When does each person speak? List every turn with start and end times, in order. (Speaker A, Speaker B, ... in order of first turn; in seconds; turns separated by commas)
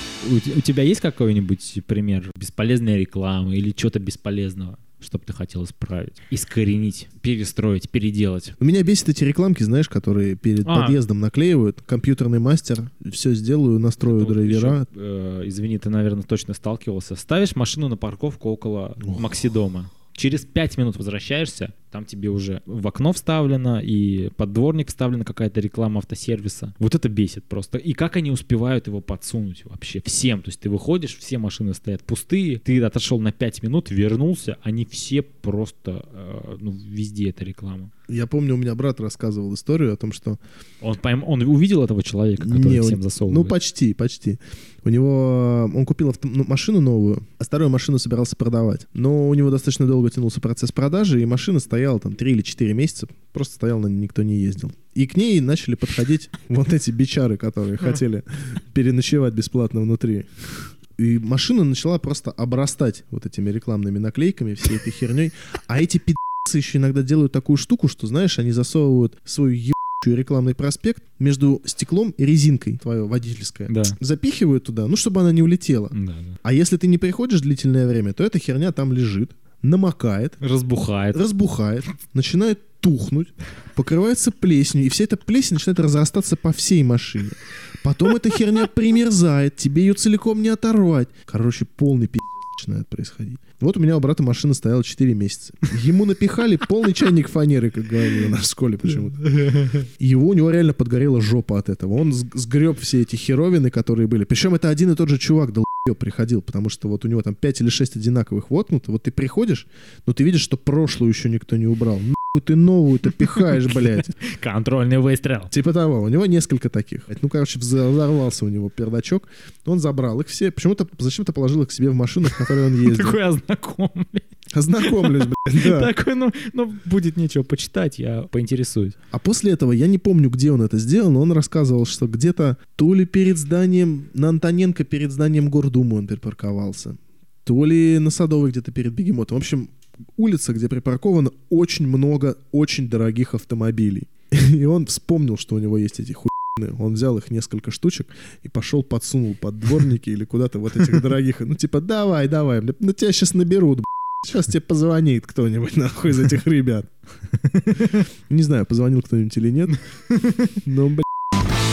Speaker A: 0.2-8.6, Speaker B: 8.6-14.8, Speaker A: 10.6-11.0, Speaker A: 14.0-37.9, Speaker B: 38.1-40.4, Speaker A: 40.8-43.5, Speaker B: 42.4-80.4, Speaker A: 73.7-74.0, Speaker A: 75.9-76.4, Speaker A: 80.4-81.2, Speaker B: 81.1-114.2, Speaker A: 99.2-99.9, Speaker A: 113.3-115.5, Speaker B: 115.5-123.2, Speaker A: 122.2-124.3, Speaker B: 124.5-125.9, Speaker A: 124.8-129.0, Speaker B: 129.1-156.9, Speaker A: 157.6-157.9, Speaker B: 157.7-159.8, Speaker A: 160.1-160.6, Speaker B: 160.6-161.1